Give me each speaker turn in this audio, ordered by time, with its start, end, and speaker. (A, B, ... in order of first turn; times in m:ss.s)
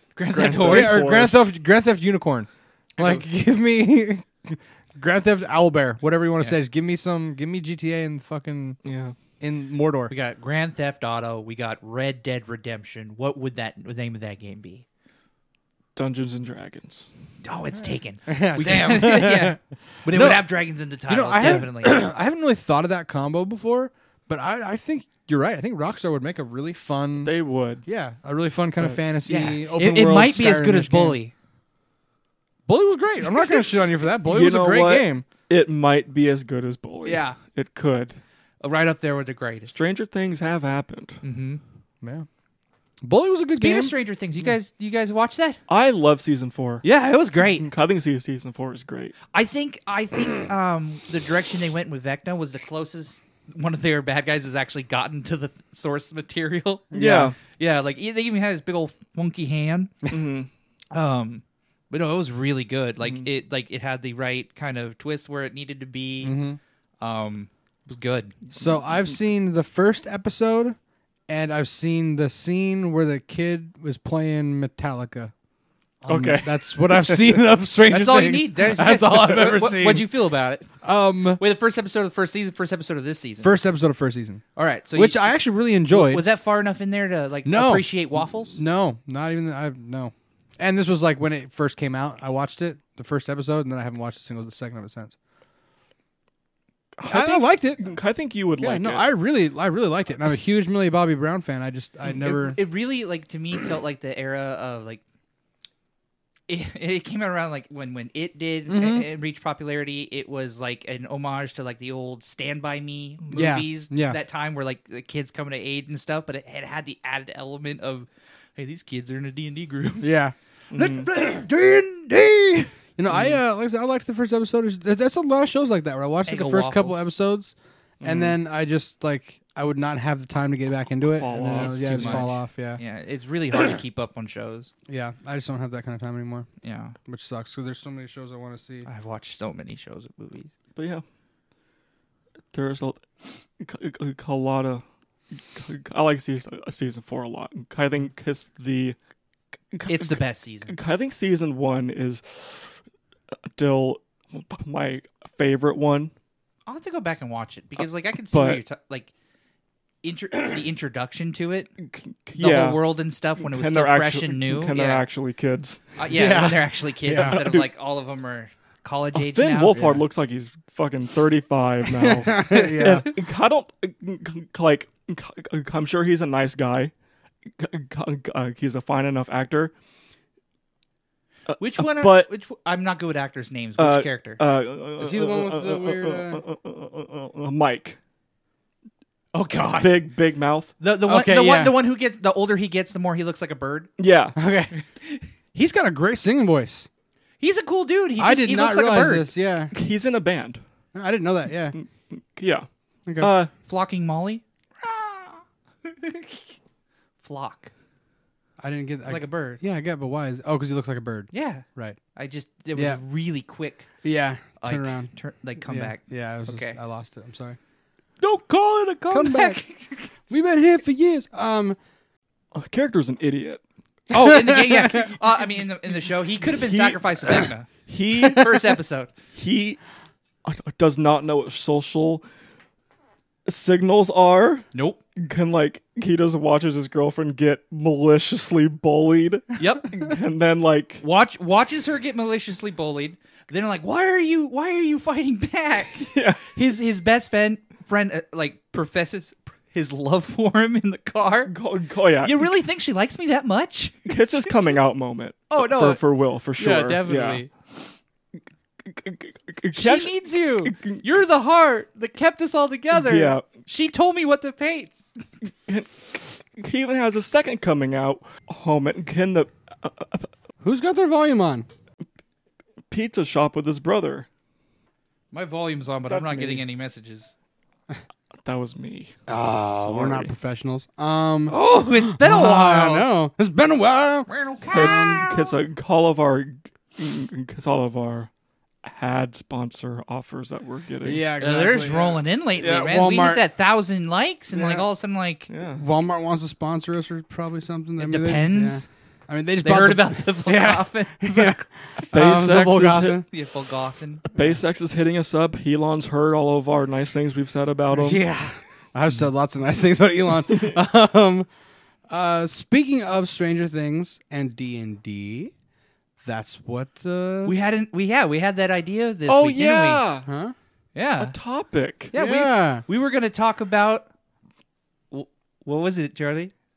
0:00.2-0:01.0 A
0:00.3-0:01.5 B
0:00.6-0:08.8 C
0:08.8-0:09.1 B
0:09.4-0:10.1 C
0:10.1-0:14.8 A
0:16.0-0:17.1 B
0:17.4-0:22.1 A
0:18.3-0:20.5 C
0:21.1-0:27.3 C
0:27.2-0:27.8 B
0:27.8-0:31.2 C
0:29.3-0:31.3 A
0:32.7-0:35.2 C
0:34.2-0:38.2 B
0:37.0-0:37.4 A
0:38.6-0:39.7 A
0:39.7-0:41.2 B
0:41.2-0:41.6 A
0:42.0-0:42.3 C
0:43.0-0:43.9 C
0:43.5-0:45.6 A
0:45.7-0:46.8 B
0:46.8-0:47.7 A
0:47.6-0:49.2 B
0:49.3-0:59.9 A
0:56.9-0:57.3 C
0:56.9-0:57.4 B
1:00.1-1:00.5 B
1:00.9-1:06.4 A
1:06.2-1:06.6 C
1:07.0-1:08.3 A
1:08.5-1:15.3 C
1:16.0-1:20.1 C
1:16.1-1:17.4 B
1:17.9-1:20.7 A
1:20.8-1:21.4 C
1:21.4-1:23.5 A
1:23.4-1:24.4 C
1:24.6-1:28.6 A
1:24.9-1:26.2 C
1:27.4-1:27.9 C
1:28.5-1:35.2 C
1:37.0-1:39.1 B
1:37.0-1:37.9 C
1:38.6-1:42.6 C
1:42.2-1:45.0 A
1:46.5-2:00.1 A
1:48.7-1:49.1 C
1:53.3-1:54.2 C
2:00.0-2:00.3 C
2:00.7-2:01.1 B
2:00.8-2:02.7 A
2:03.0-2:12.8 C
2:03.1-2:03.4 B
2:06.2-2:07.1 A
2:08.0-2:08.4 B
2:11.1-2:12.3 B
2:11.6-2:14.7 A
2:14.9-2:16.5 C
2:16.6-2:16.9 A
2:17.0-2:18.9 C
2:18.8-2:20.5 A
2:20.8-2:21.0 B
2:22.5-2:29.0 B
2:29.7-2:32.8 B
2:29.9-2:30.7 A
2:33.6-2:36.1 B
2:36.7-2:39.1 A
2:38.3-2:38.6 B
2:40.0-2:41.7 A
2:41.8-2:42.9 B
2:42.3-2:45.0 A
2:43.4-2:45.9 B
2:46.0-2:50.0 A
2:46.1-2:47.4 C
2:47.1-2:47.6 B
2:49.1-2:56.9 B
2:52.1-2:53.1 C
2:57.5-2:59.7 B
3:01.5-3:02.3 B
3:01.6-3:04.4 A
3:03.8-3:08.0 B
3:05.0-3:06.4 C
3:09.3-3:10.0 A
3:09.8-3:10.7 B
3:10.8-3:13.9 A
3:11.0-3:11.8 C
3:14.0-3:14.4 B
3:14.4-3:14.7 C
3:14.7-3:15.2 A
3:15.5-3:16.9 C
3:17.4-3:19.3 A
3:18.2-3:19.7 C
3:19.7-3:20.6 B
3:20.9-3:21.8 C
3:21.7-3:23.5 B
3:23.0-3:23.3 C
3:23.6-3:26.5 A
3:27.2-3:27.7 A
3:28.6-3:32.0 C
3:29.1-3:29.6 A
3:31.3-3:33.9 A
3:34.0-3:35.1 C
3:34.6-3:36.8 A
3:35.6-3:37.6 C
3:38.2-3:39.6 C
3:39.1-3:40.1 A
3:40.3-3:41.8 C
3:42.5-3:43.6 B
3:44.1-3:49.1 A
3:44.1-3:45.1 C
3:46.5-3:48.8 B
3:49.3-3:49.8 B
3:50.4-3:52.2 B
3:53.4-4:01.0 B
3:54.7-3:55.0 A
3:59.6-4:00.0 A
4:01.0-4:11.5 A
4:06.0-4:06.6 B
4:11.5-4:12.5 B
4:12.2-4:14.6 A
4:14.0-4:17.4 B
4:15.5-4:16.0 A
4:16.6-4:17.5 A
4:18.8-4:21.0 B
4:19.7-4:24.9 A
4:22.9-4:23.5 B
4:25.6-4:30.3 B
4:30.6-4:31.7 C
4:32.9-4:34.3 B
4:35.3-4:37.3 A
4:36.1-4:36.6 B
4:38.4-4:40.3 B
4:39.3-4:45.2 C
4:41.5-4:43.1 A
4:44.3-4:45.5 A
4:44.7-4:48.3 B
4:48.8-4:51.2 B
4:51.0-4:53.4 C
4:51.4-4:55.5 A
4:52.6-4:52.8 B
4:54.5-4:54.9 C
4:55.5-4:55.8 B
4:55.8-5:03.2 C
4:58.0-4:58.8 A
4:59.6-5:01.6 A
5:02.1-5:03.2 B
5:03.3-5:04.2 A
5:04.3-5:08.2 B
5:07.9-5:11.5 C
5:10.5-5:10.8 B
5:12.1-5:15.5 C
5:16.2-5:17.5 C
5:17.4-5:20.0 A
5:19.3-5:20.3 B
5:20.2-5:20.5 C
5:20.9-5:21.3 A
5:21.2-5:22.1 B
5:22.1-5:22.8 C
5:22.1-5:24.0 A
5:25.1-5:26.5 A